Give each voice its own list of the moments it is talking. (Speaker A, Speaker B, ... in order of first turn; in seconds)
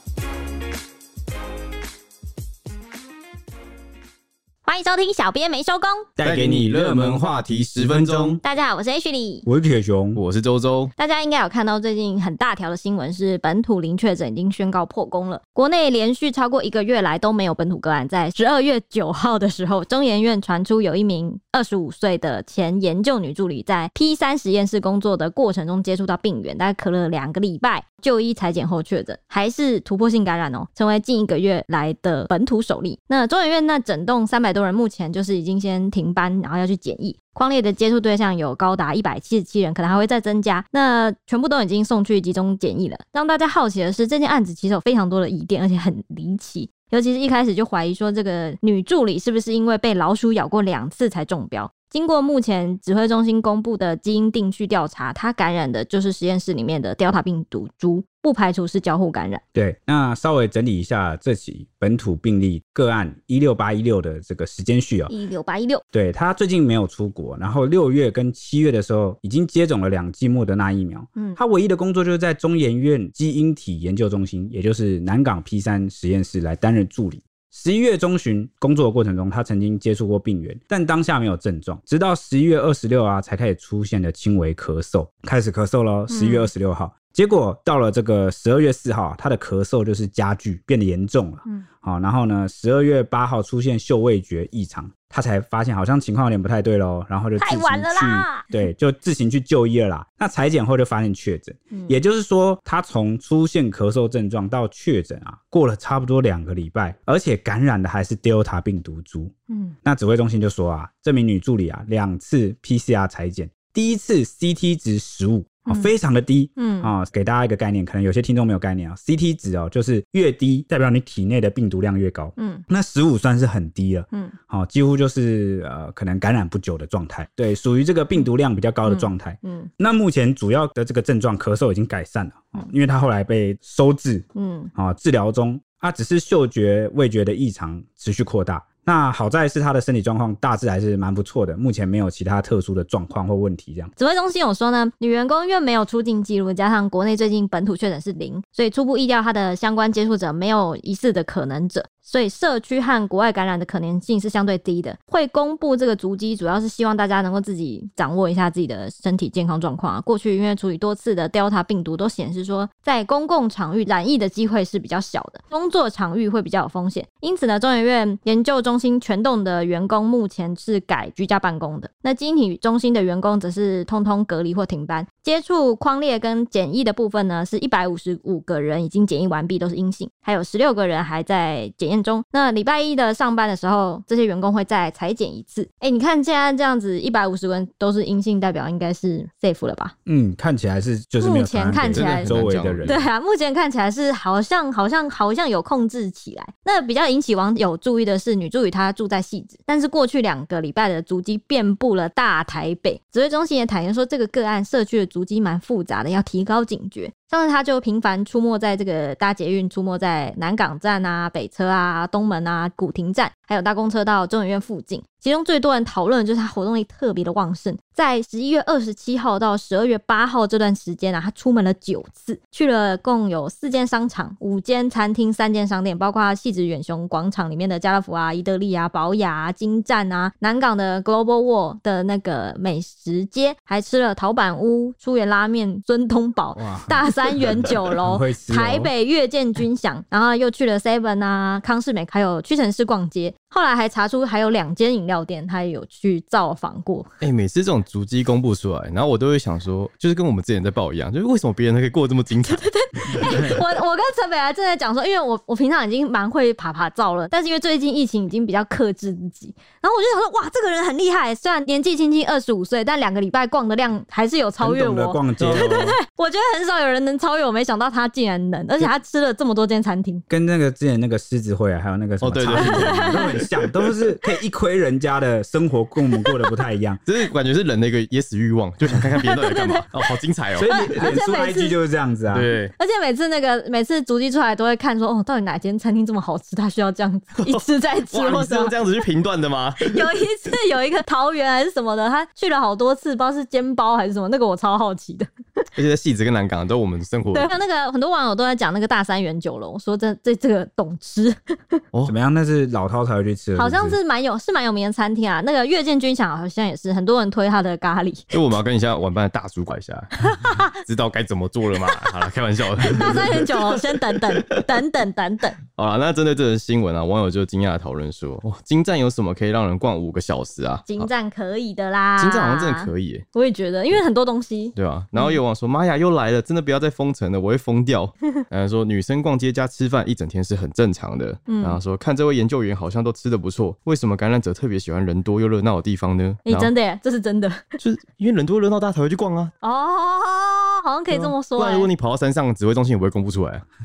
Speaker A: 4.6-6.1, 8.4-9.4, 11.0-59.4, 65.1-65.8, 86.1-86.5, 97.4-98.5, 109.5-109.7, 116.6-116.9, 122.4-122.6, 128.8-129.7, 134.3-134.7, 144.0-189.9, 191.2-192.3, 192.8-247.1, 252.4-270.2, 272.5-273.4, 279.1-279.9, 280.6-281.8, 282.8-288.8, 289.8-295.6, 297.3-301.8, 303.6-308.3, 310.3-310.7, 312.8-315.6, 320.9-325.4, 331.5-331.8, 336.4-337.6, 339.6-341.9
Speaker B: 6.2-7.4, 9.4-10.2, 59.5-65.1, 65.9-143.9, 190.1-193.0, 236.6-238.9, 264.6-266.0, 270.3-277.0, 280.6-282.5, 302.1-304.0
Speaker C: 6.2-8.4, 10.2-10.9, 191.9-193.1, 247.2-253.6, 272.2-273.5, 277.1-280.7, 282.3-282.7, 287.4-290.1, 295.8-297.5, 308.3-314.6, 315.7-321.1, 322.2-323.2, 324.7-336.7, 337.8-339.5, 341.1-343.6